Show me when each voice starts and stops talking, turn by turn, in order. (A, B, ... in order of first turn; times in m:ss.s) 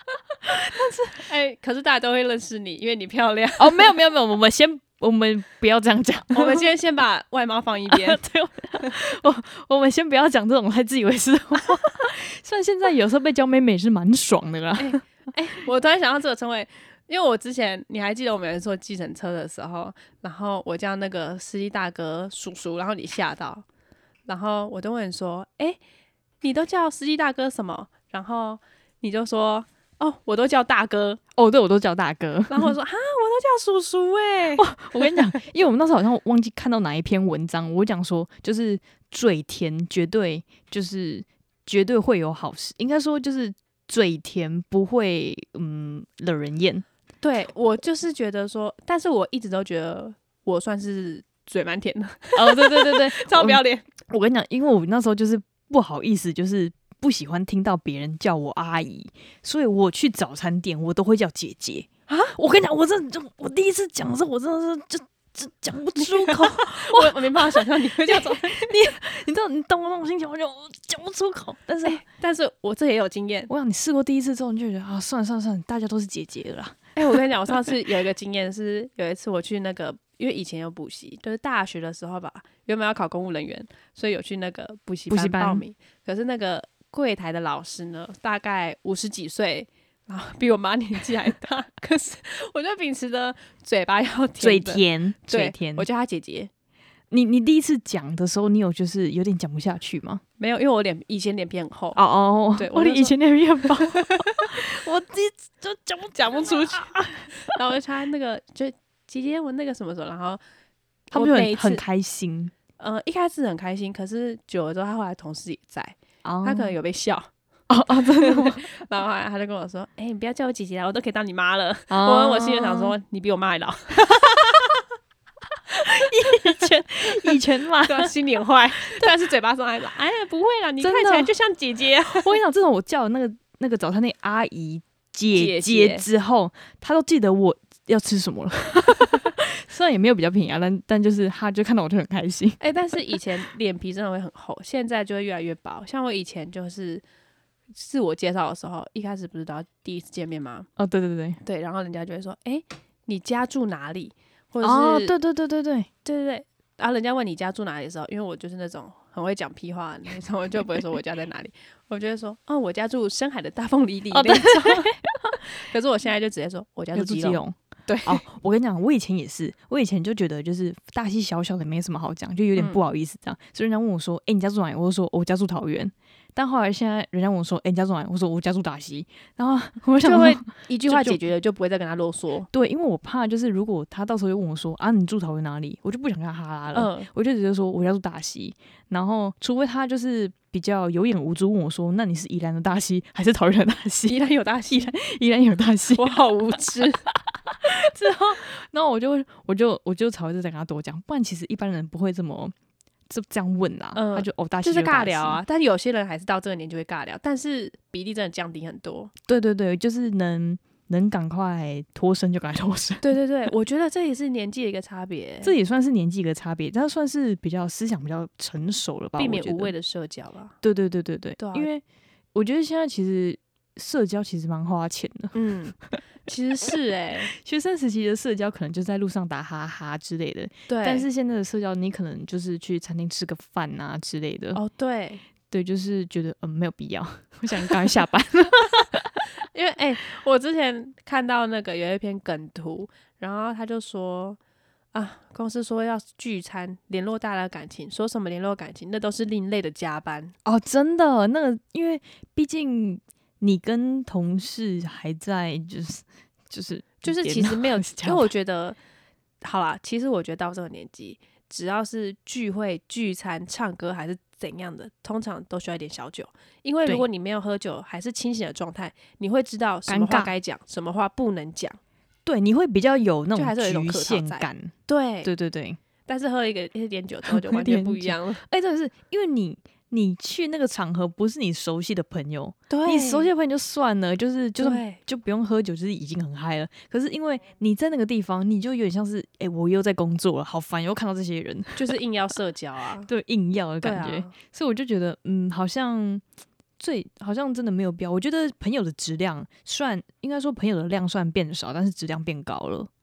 0:00.4-0:01.2 A
0:01.1-0:03.9 B
0:03.6-0:06.6 A
0:06.3-0:08.2 B
0:07.9-0:15.0 A
0:14.8-0:23.6 B
0:24.3-0:25.8 B
0:26.4-0:31.2 B
0:31.4-0:32.7 A
0:32.5-0:35.4 B
0:34.6-0:46.8 A
0:47.2-0:53.8 B
0:52.4-1:12.0 A
1:02.1-1:02.3 B
1:06.0-1:08.8 B
1:11.8-1:13.5 B
1:13.5-1:17.2 A
1:17.0-1:36.5 B
1:25.1-1:25.6 A
1:34.4-1:35.9 A
1:37.1-1:40.2 A
1:40.4-1:42.0 B
1:41.9-1:44.6 A
1:42.6-1:43.2 B
1:43.7-1:50.4 B
1:46.4-1:47.2 A
1:51.1-1:51.8 B
1:51.1-1:52.5 A
1:52.8-1:57.3 B
1:56.2-1:56.7 A
1:57.7-1:58.7 A
1:58.1-2:04.3 B
2:01.9-2:02.9 A
2:04.2-2:04.5 A
2:05.7-2:08.1 A
2:07.1-2:12.4 B
2:10.8-2:11.3 A
2:12.0-2:22.6 A
2:15.3-2:16.0 B
2:22.6-2:27.0 B
2:27.7-2:30.7 B
2:30.8-2:31.4 A
2:31.4-2:35.1 B
2:34.6-2:35.9 A
2:36.0-2:44.9 B
2:44.1-2:45.4 A
2:45.5-2:48.2 B
2:46.9-3:01.2 A
3:00.0-3:02.5 B
3:02.5-3:14.2 A
3:06.7-3:07.1 B
3:14.1-3:14.9 B
3:14.7-3:16.2 A
3:15.9-3:17.1 B
3:17.1-3:22.5 A
3:23.1-3:25.4 A
3:23.9-3:29.1 B
3:29.3-3:33.0 A
3:33.0-3:35.5 B
3:35.4-3:39.7 A
3:39.2-3:40.5 B
3:40.6-3:41.8 A
3:41.4-3:41.7 B
3:42.3-3:46.0 A
3:45.3-3:47.3 B
3:47.3-3:54.6 A
3:50.7-3:51.1 B
3:54.5-3:55.2 B
3:55.5-3:59.2 A
3:59.5-4:04.4 B
4:04.9-4:10.3 B
4:10.4-4:18.3 A
4:17.0-4:18.8 B
4:19.4-4:31.8 B
4:29.8-4:30.3 A
4:32.2-4:35.8 A
4:33.3-4:35.3 B
4:36.0-4:38.4 B
4:37.3-4:52.0 A
4:42.7-4:43.3 B
4:44.6-4:45.0 B
4:51.8-4:53.1 B
4:53.1-4:56.2 A
4:53.8-4:54.3 B
4:56.8-5:02.9 A